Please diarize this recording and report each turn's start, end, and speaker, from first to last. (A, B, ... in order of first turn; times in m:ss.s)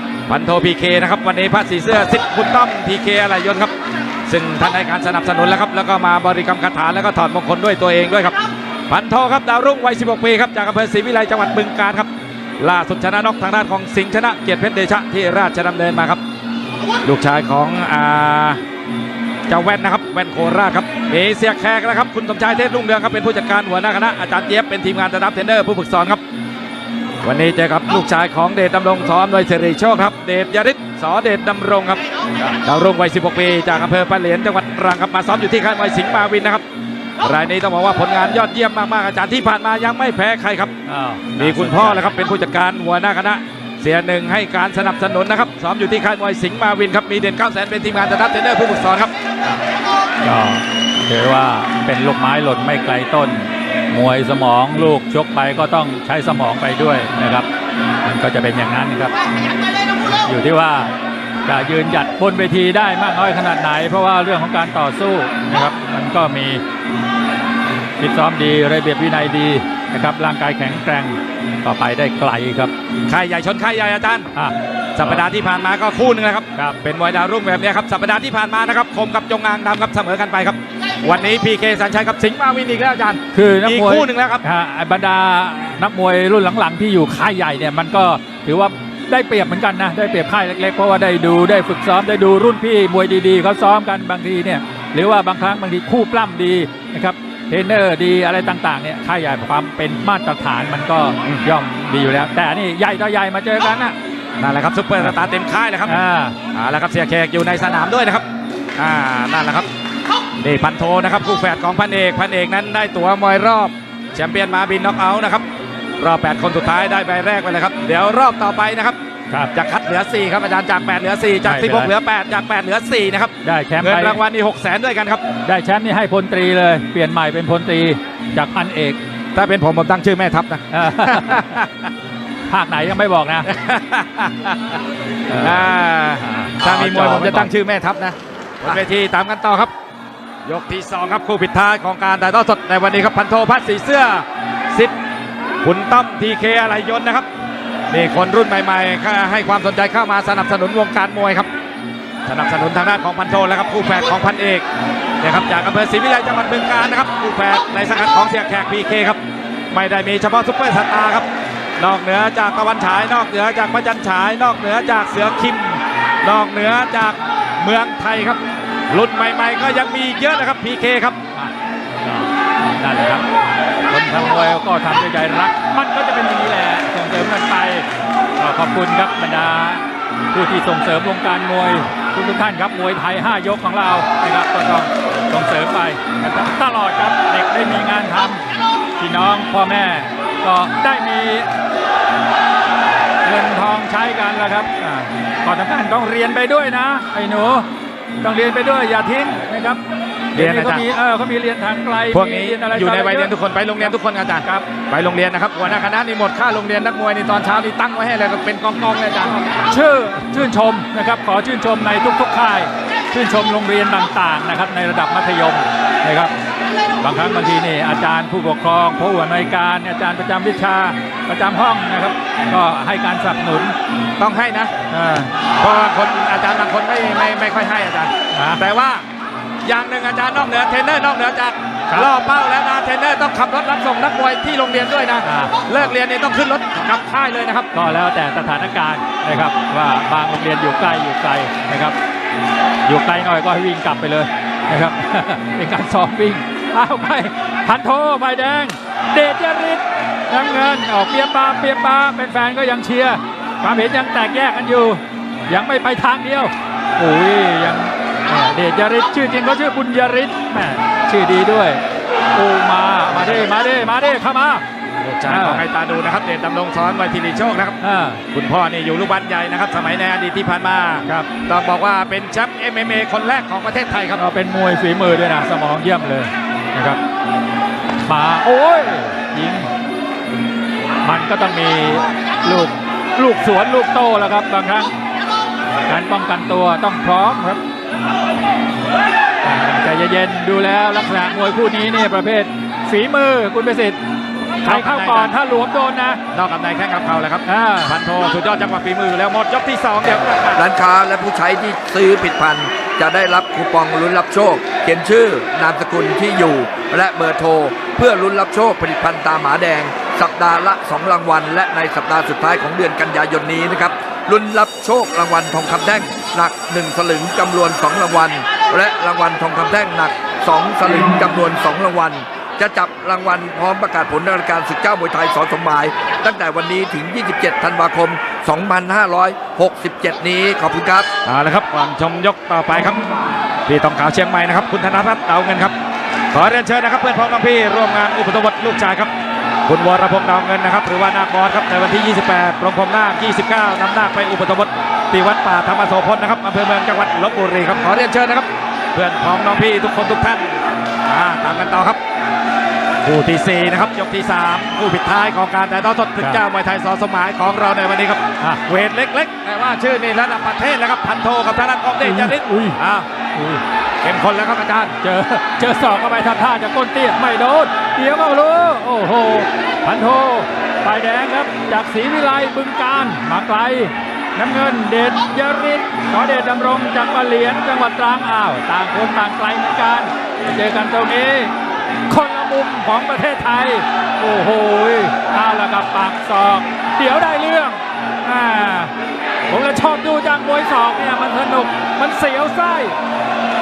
0:00.3-0:03.7 A
0:04.2-0:08.4 A
0:08.9-0:16.2 A
0:17.0-0:18.6 A
0:19.5-0:26.2 A
0:27.2-0:32.0 A
0:32.6-0:36.6 A
0:37.2-0:40.7 A
0:40.8-0:42.1 B
0:41.3-0:49.1 A
0:50.2-0:57.5 B
0:58.0-0:59.1 B
1:00.1-1:00.9 B
1:01.4-1:06.6 B
1:08.0-1:12.7 B
1:13.1-1:14.3 A
1:14.3-1:15.2 B
1:15.0-1:24.4 A
1:23.3-1:43.9 B
1:44.4-1:46.0 A
1:45.8-1:46.4 B
1:46.5-1:48.2 A
1:48.8-1:49.7 A
1:50.4-1:55.4 A
1:56.0-1:59.0 A
1:59.5-2:05.2 A
2:01.4-2:01.9 B
2:03.4-2:04.2 B
2:05.4-2:09.0 B
2:09.3-2:11.9 A
2:10.7-2:11.6 B
2:12.5-2:13.5 B
2:13.5-2:14.8 A
2:15.3-2:15.7 B
2:15.4-2:19.7 A
2:16.2-2:17.5 B
2:20.4-2:24.9 A
2:25.6-2:27.3 A
2:27.9-2:31.5 A
2:32.2-2:34.6 A
2:35.2-2:39.2 A
2:39.7-2:41.3 A
2:41.8-2:51.2 A
2:52.0-2:53.2 B
2:53.9-2:57.8 B
2:58.4-3:08.4 B
3:09.0-3:11.5 B
3:13.2-3:17.6 B
3:18.2-3:19.8 B
3:20.4-3:20.8 A
3:20.4-3:23.9 B
3:22.1-3:29.4 A
3:29.6-3:36.3 B
3:37.0-3:43.7 B
3:44.2-3:44.7 A
3:44.9-3:45.3 B
3:45.6-3:49.0 A
3:48.3-3:48.6 B
3:49.6-3:57.7 A
3:55.2-3:55.6 B
3:57.7-4:02.0 B
4:02.8-4:21.8 B
4:22.3-4:24.6 B
4:25.0-4:27.8 A
4:25.3-4:25.6 B
4:27.8-4:28.2 B
4:28.3-4:34.2 A
4:34.2-4:37.0 B
4:38.0-4:39.7 B
4:41.0-4:44.9 B
4:45.9-4:47.6 B
4:49.4-4:54.0 B
4:54.6-4:56.2 B
4:54.6-4:55.3 A
4:56.3-5:00.6 A
4:57.4-4:57.9 B
5:00.5-5:31.1 C
5:31.2-5:33.0 A
5:33.6-5:35.7 A
5:36.3-5:39.1 A
5:39.7-5:52.0 A
5:53.0-6:03.1 A
6:02.0-6:02.8 B
6:03.3-6:03.6 B
6:04.0-6:05.0 A
6:05.0-6:21.5 B
6:22.1-6:28.9 B
6:29.5-6:33.0 B